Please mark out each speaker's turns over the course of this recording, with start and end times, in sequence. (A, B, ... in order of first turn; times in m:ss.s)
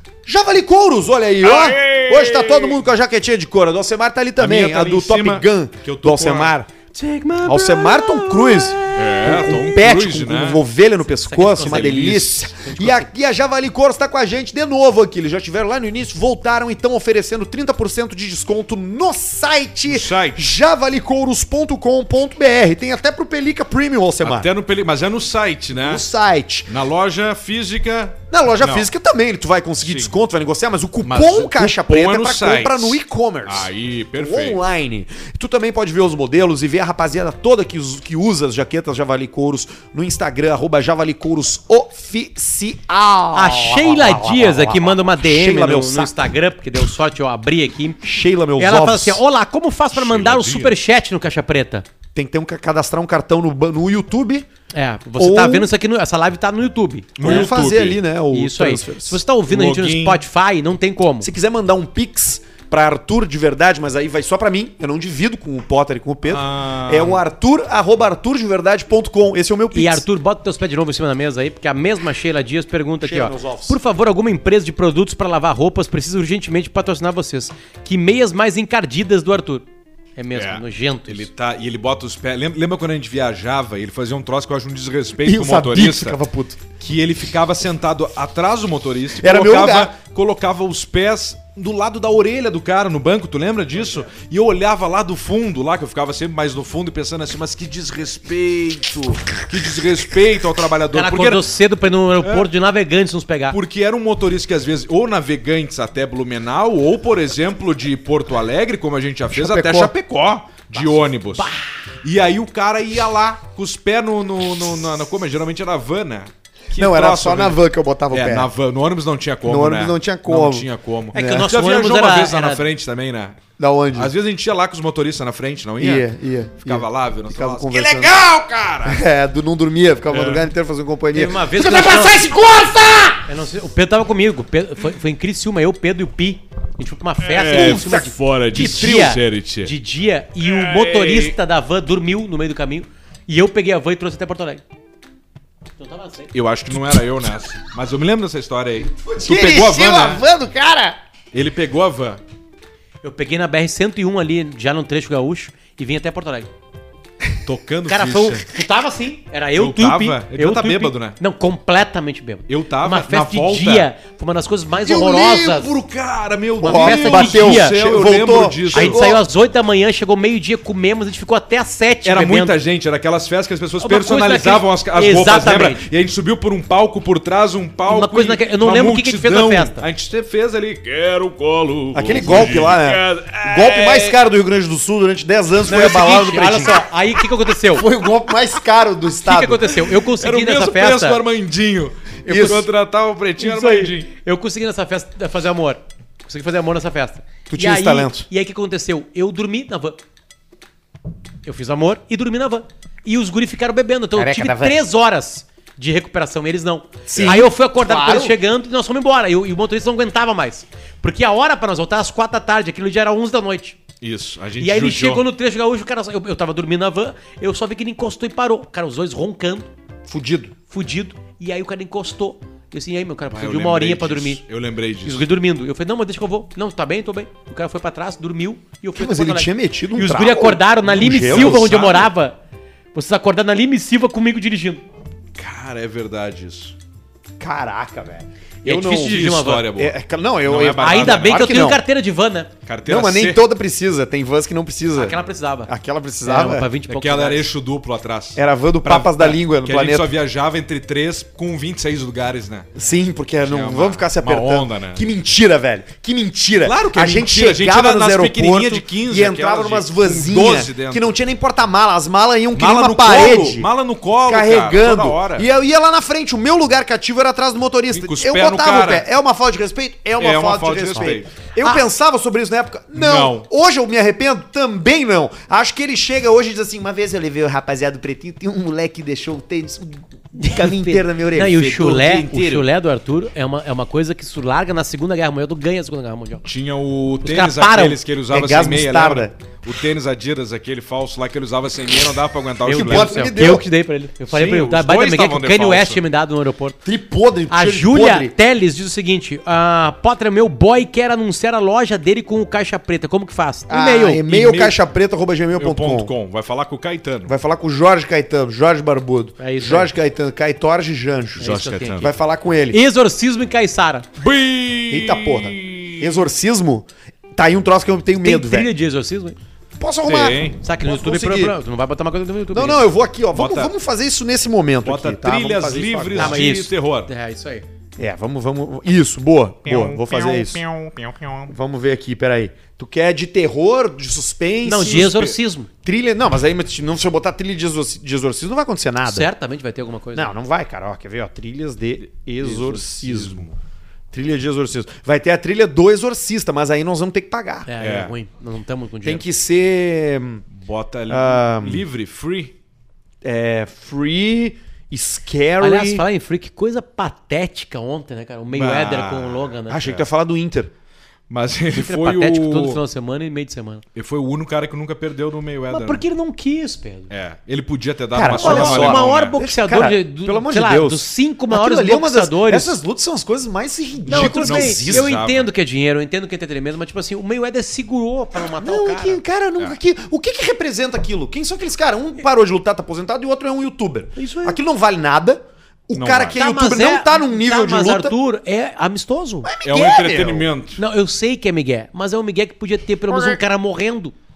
0:00.3-0:06.7 A
0:01.4-0:02.8 B
0:04.4-0:06.5 B
0:07.0-0:08.4 C
0:07.4-0:24.5 A
0:08.9-0:10.6 B
0:11.1-0:13.1 C
0:11.6-0:12.5 B
0:19.9-0:20.4 B
0:24.2-0:26.1 B
0:25.8-0:26.7 A
0:26.7-0:28.9 B
0:28.3-0:46.3 A
0:29.8-0:30.1 B
0:31.0-0:34.6 B
0:43.3-0:48.0 C
0:48.0-0:49.2 A
0:48.6-0:51.9 C
0:49.9-0:50.8 B
0:52.2-0:54.5 A
0:54.7-0:57.5 C
0:55.2-0:55.7 A
0:57.2-0:58.0 B
0:57.2-0:59.2 A
0:58.3-1:01.3 C
0:59.5-1:00.2 B
1:01.2-1:10.0 A
1:06.3-1:07.2 B
1:09.7-1:19.6 C
1:13.0-1:13.8 A
1:20.2-1:21.3 C
1:20.3-1:26.2 B
1:25.2-1:26.6 A
1:26.8-1:41.4 B
1:29.2-1:29.9 A
1:40.9-1:43.6 C
1:42.2-1:42.5 B
1:43.5-1:51.5 B
1:49.3-1:49.9 A
1:51.3-1:51.6 C
1:52.0-1:57.6 B
1:56.8-1:58.5 A
1:58.1-2:03.4 B
1:59.4-2:01.5 A
2:01.1-2:02.6 C
2:03.6-2:04.1 A
2:03.9-2:06.1 B
2:05.8-2:08.2 A
2:06.6-2:09.0 B
2:08.8-2:13.3 A
2:10.1-2:10.5 B
2:11.1-2:12.2 C
2:13.3-2:24.6 C
2:17.2-2:19.7 B
2:17.4-2:19.1 A
2:20.4-2:21.4 B
2:25.8-2:26.3 C
2:26.3-2:30.2 B
2:28.9-2:31.0 A
2:31.3-2:32.2 B
2:33.0-2:36.5 C
2:37.4-2:38.5 B
2:37.9-2:45.8 C
2:39.6-2:41.2 B
2:42.5-2:43.9 B
2:44.9-2:49.1 B
2:46.6-2:49.2 A
2:46.6-2:47.8 C
2:48.7-2:52.6 C
2:52.0-3:04.2 B
2:53.8-2:55.8 C
2:57.9-2:59.9 C
3:01.9-3:06.8 A
3:05.6-3:07.9 C
3:07.7-3:09.7 A
3:09.2-3:11.2 C
3:10.0-3:14.1 B
3:12.3-3:12.7 A
3:13.4-3:20.0 C
3:17.5-3:18.3 A
3:21.4-3:33.8 C
3:24.2-3:24.8 A
3:27.1-3:28.4 A
3:27.1-3:27.4 B
3:34.0-3:35.2 B
3:34.6-3:39.7 C
3:40.1-3:40.5 A
3:40.7-3:44.4 C
3:43.3-3:45.3 B
3:45.0-3:52.4 C
3:49.0-3:51.7 A
3:51.2-3:52.1 B
3:52.9-3:54.8 C
3:55.4-3:56.8 B
3:57.4-4:01.8 A
3:58.6-3:59.7 C
3:58.7-4:01.5 B
4:00.8-4:02.5 C
4:02.6-4:03.4 B
4:02.9-4:06.7 A
4:05.0-4:05.7 C
4:06.2-4:07.5 C
4:06.9-4:12.8 B
4:08.4-4:10.1 A
4:12.8-4:23.7 A
4:13.4-4:15.1 B
4:16.6-4:21.1 B
4:22.6-4:25.5 B
4:24.3-4:42.6 A
4:27.9-4:29.1 B
4:30.2-4:31.3 B
4:31.0-4:31.8 C
4:32.9-4:33.5 B
4:40.4-4:46.4 C
4:46.4-4:53.2 B
4:47.2-4:48.0 C
4:48.3-4:49.3 A
4:52.7-4:56.8 C
4:52.7-4:53.7 A
4:54.3-4:56.0 B
4:56.8-4:58.3 A
4:57.5-5:04.4 C
5:03.7-5:06.1 A
5:04.3-5:04.8 B
5:05.6-5:07.3 B
5:07.3-5:12.8 A
5:09.4-5:09.9 C
5:11.4-5:12.1 B
5:11.4-5:12.1 C
5:12.7-5:14.1 C
5:14.2-5:16.2 B
5:14.9-5:18.7 A
5:18.2-5:19.4 C
5:19.8-5:21.6 A
5:20.1-5:20.6 B
5:20.6-5:22.9 C
5:22.5-5:26.5 A
5:23.3-5:23.7 B
5:24.8-5:27.1 B
5:26.2-5:27.6 C
5:28.0-5:30.6 A
5:29.7-5:31.5 B
5:31.5-5:39.3 A
5:34.6-5:35.7 C
5:39.0-5:40.3 C
5:40.1-5:43.5 A
5:42.4-5:43.6 B
5:44.1-5:47.7 A
5:47.7-5:49.2 C
5:47.8-5:48.1 B
5:49.0-5:50.4 A
5:50.5-5:52.5 B
5:51.1-5:51.9 A
5:53.2-5:56.0 A
5:55.6-5:59.8 C
5:58.5-6:00.0 B
5:59.7-6:00.7 A
6:01.3-6:02.8 B
6:01.7-6:03.8 C
6:04.0-6:06.0 B
6:05.7-6:07.1 C
6:07.1-6:09.4 B
6:08.1-6:15.1 A
6:08.3-6:12.8 C
6:14.0-6:15.5 B
6:14.1-6:19.2 C
6:18.4-6:28.2 A
6:24.2-6:24.6 C
6:25.9-6:26.4 B
6:26.4-6:29.5 C
6:29.4-6:30.5 A
6:29.6-6:30.8 B
6:30.8-6:34.1 C
6:33.1-6:33.4 A